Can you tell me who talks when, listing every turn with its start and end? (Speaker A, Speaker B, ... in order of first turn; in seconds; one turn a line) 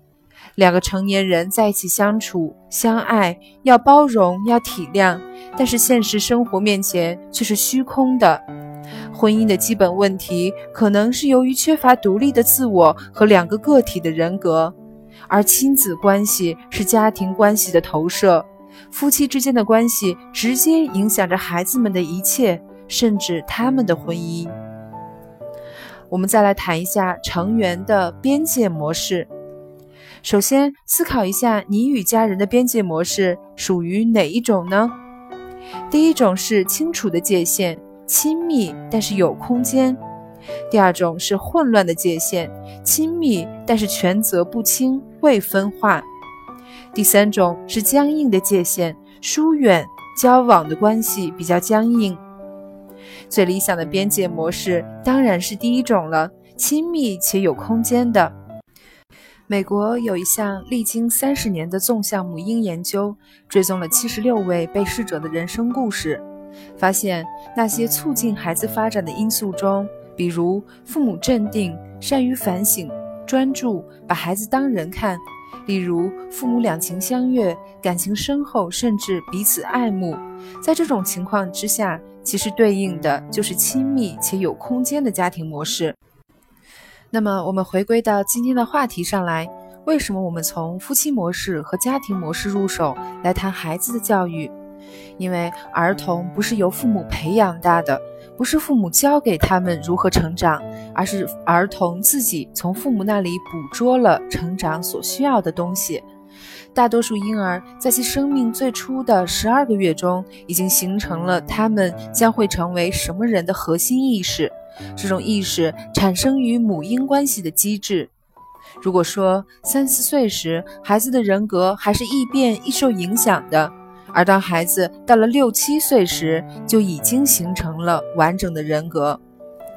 Speaker A: 0.6-8.4
Speaker A: 9.1-14.7
Speaker A: 15.3-24.5
Speaker A: 26.1-29.3
Speaker A: 30.2-34.9
Speaker A: 35.9-40.0
Speaker A: 40.7-46.1
Speaker A: 46.9-52.2
Speaker A: 53.3-58.3
Speaker A: 59.5-66.2
Speaker A: 66.8-86.0
Speaker A: 87.1-94.5
Speaker A: 95.2-106.0
Speaker A: 106.7-118.1
Speaker A: 118.8-129.2